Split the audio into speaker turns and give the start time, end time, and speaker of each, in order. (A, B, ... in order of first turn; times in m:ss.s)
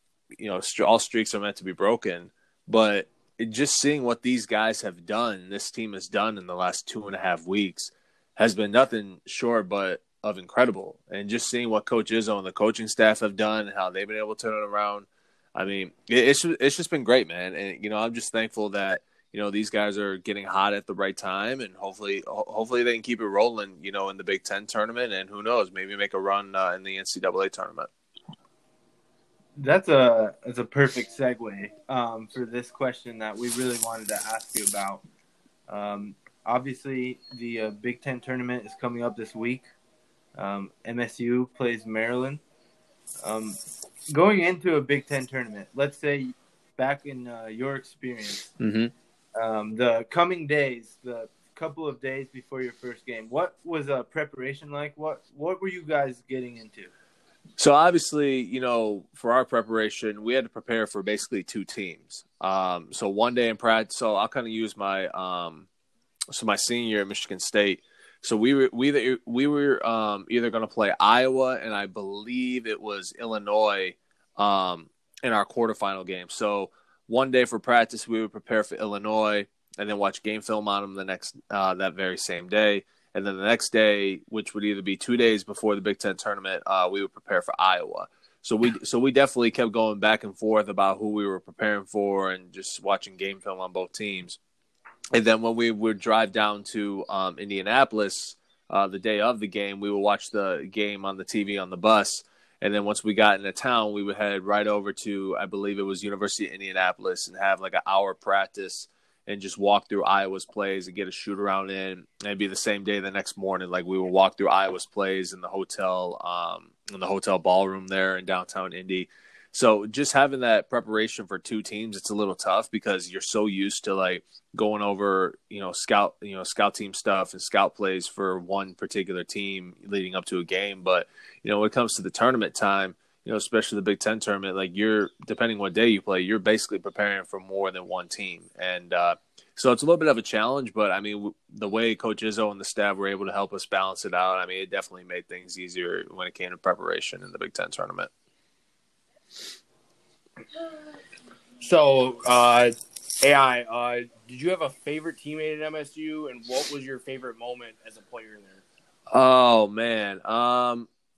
0:00.4-0:27.9 A
0:29.6-0:35.0 B
0:35.7-0:39.7 B
0:40.4-0:42.4 B
0:43.2-0:48.5 B
0:48.6-0:48.9 A
0:49.4-0:56.9 B
0:57.6-1:05.7 A
1:06.3-1:34.4 A
1:35.1-2:28.1 A
2:31.6-2:38.6 C
2:39.1-2:40.9 A